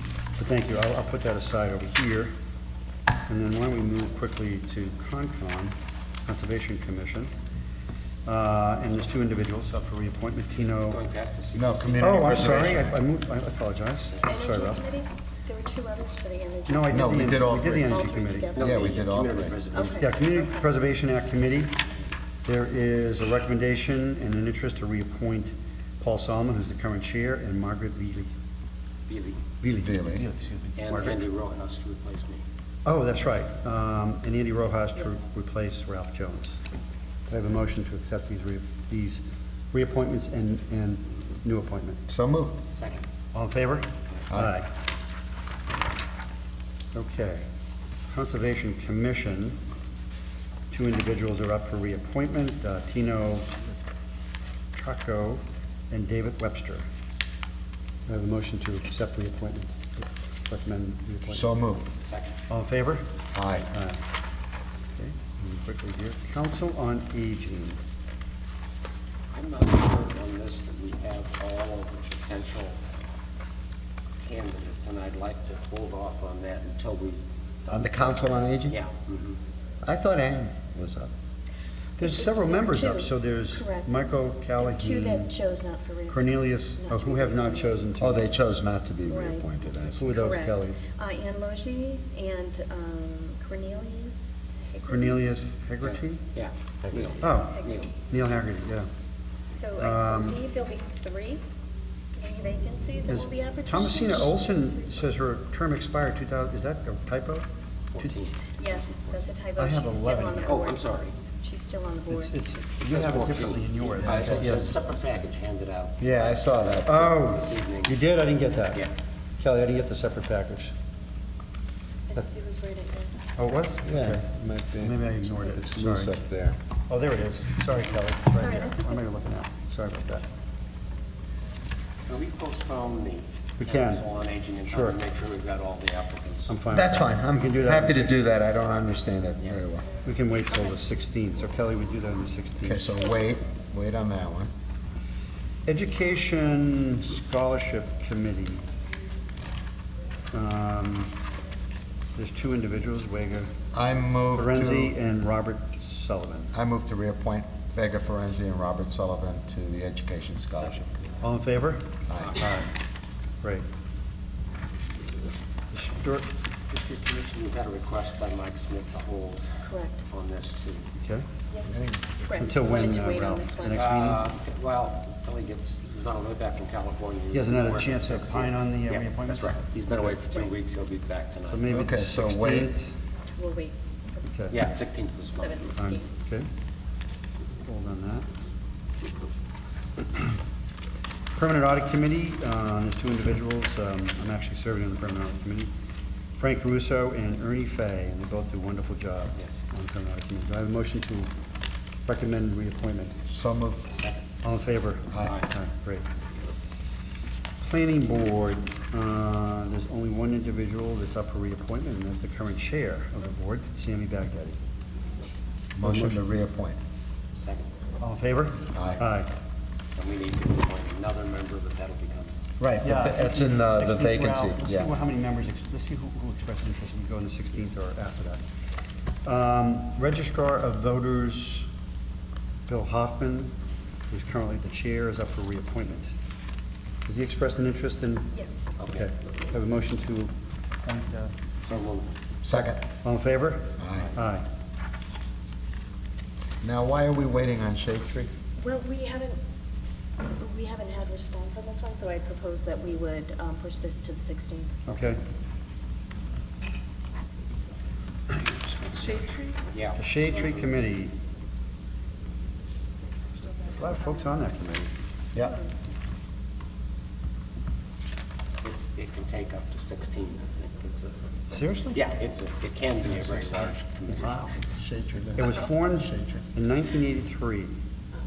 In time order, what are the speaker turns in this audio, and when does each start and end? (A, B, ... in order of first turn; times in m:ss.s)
0:00.4-0:02.3 A
0:03.3-0:05.7 A
0:06.2-0:07.3 A
0:08.2-0:11.0 A
0:10.7-0:12.8 B
0:11.5-0:13.0 C
0:12.0-0:14.8 A
0:14.2-0:18.9 D
0:16.7-0:18.5 A
0:16.9-0:19.6 C
0:18.5-0:20.0 B
0:19.7-0:20.7 D
0:19.9-0:21.8 A
0:22.4-0:28.3 A
0:29.1-0:29.4 B
0:29.6-0:31.2 A
0:29.8-0:30.2 C
0:30.8-0:32.4 B
0:32.8-0:36.6 A
0:37.3-0:42.0 A
0:42.1-0:42.6 C
0:42.7-0:43.0 B
0:43.3-0:44.7 A
0:46.9-0:47.4 A
0:48.1-0:49.6 A
0:50.7-0:53.5 A
0:54.7-0:56.8 A
0:58.1-1:01.5 A
1:01.3-1:01.9 C
1:02.0-1:02.4 B
1:02.5-1:03.0 A
1:03.3-1:03.7 C
1:03.7-1:04.0 A
1:05.0-1:07.8 A
1:09.3-1:12.8 B
1:14.2-1:19.4 B
1:17.7-1:18.8 C
1:19.8-1:21.1 C
1:22.0-1:25.3 A
1:22.0-1:24.0 D
1:24.6-1:27.8 D
1:26.1-1:28.3 A
1:28.0-1:30.2 C
1:29.1-1:29.5 D
1:29.9-1:30.8 A
1:30.1-1:34.9 D
1:34.8-1:36.2 A
1:35.8-1:38.0 B
1:37.2-1:38.9 A
1:39.5-1:41.4 D
1:39.8-1:40.4 A
1:42.1-1:44.3 D
1:43.0-1:47.5 A
1:47.9-1:49.3 B
1:48.6-1:50.9 D
1:49.6-1:50.6 A
1:50.4-1:51.1 B
1:51.4-1:52.3 D
1:52.1-1:54.9 A
1:52.8-1:58.1 B
1:56.0-1:57.0 C
1:56.8-1:58.8 A
1:59.4-2:00.7 A
2:02.1-2:03.1 D
2:03.4-2:04.2 A
2:03.8-2:06.6 C
2:04.8-2:06.2 A
2:06.9-2:10.2 A
2:08.3-2:09.0 D
2:12.0-2:16.6 B
2:13.6-2:14.0 A
2:14.7-2:15.0 A
2:16.5-2:18.2 A
2:16.7-2:19.9 C
2:20.0-2:23.0 A
2:20.5-2:20.8 D
2:22.6-2:24.5 C
2:25.6-2:28.6 A
2:30.3-2:31.2 A
2:32.2-2:33.6 A
2:33.7-2:34.9 C
2:34.3-2:36.5 A
2:36.5-2:40.9 C
2:41.2-2:42.7 A
2:42.1-2:42.4 C
2:42.2-2:42.5 B
2:45.7-2:46.2 A
2:46.7-2:50.8 B
2:49.7-2:50.0 D
2:51.0-2:51.3 A
2:51.6-2:52.2 C
2:52.2-2:53.8 D
2:52.4-2:54.3 A
2:53.7-3:01.7 B
2:57.3-3:00.3 A
3:01.5-3:02.9 A
3:01.7-3:02.7 C
3:03.4-3:04.3 D
3:04.3-3:04.6 A
3:04.5-3:05.7 B
3:05.3-3:06.1 D
3:05.8-3:06.5 A
3:07.6-3:08.3 A
3:11.4-3:15.7 A
3:16.4-3:21.3 A
3:22.0-3:23.2 A
3:23.3-3:23.9 C
3:23.9-3:24.3 B
3:24.4-3:26.0 A
3:27.6-3:34.6 A
3:35.8-3:36.8 C
3:35.8-3:36.2 A
3:37.3-3:37.7 B
3:38.0-3:39.3 A
3:38.7-3:39.0 C
3:40.0-3:42.3 B
3:42.6-3:44.9 C
3:42.8-3:48.4 A
3:49.2-3:51.7 A
3:52.7-3:53.5 A
3:54.1-3:56.1 A
3:57.0-4:01.3 A
3:58.8-3:59.1 B
4:01.6-4:02.1 B
4:02.4-4:02.8 C
4:02.5-4:04.4 A
4:03.8-4:04.1 C
4:06.6-4:08.3 C
4:08.6-4:09.4 D
4:10.2-4:15.1 D
4:14.9-4:15.2 A
4:18.4-4:19.4 A
4:19.7-4:20.7 B
4:20.0-4:21.1 A
4:23.4-4:24.9 A
4:25.4-4:25.7 D
4:28.6-4:31.2 B
4:31.5-4:32.0 A
4:31.9-4:34.5 B
4:34.2-4:34.5 A
4:34.7-4:36.4 C
4:35.4-4:37.7 A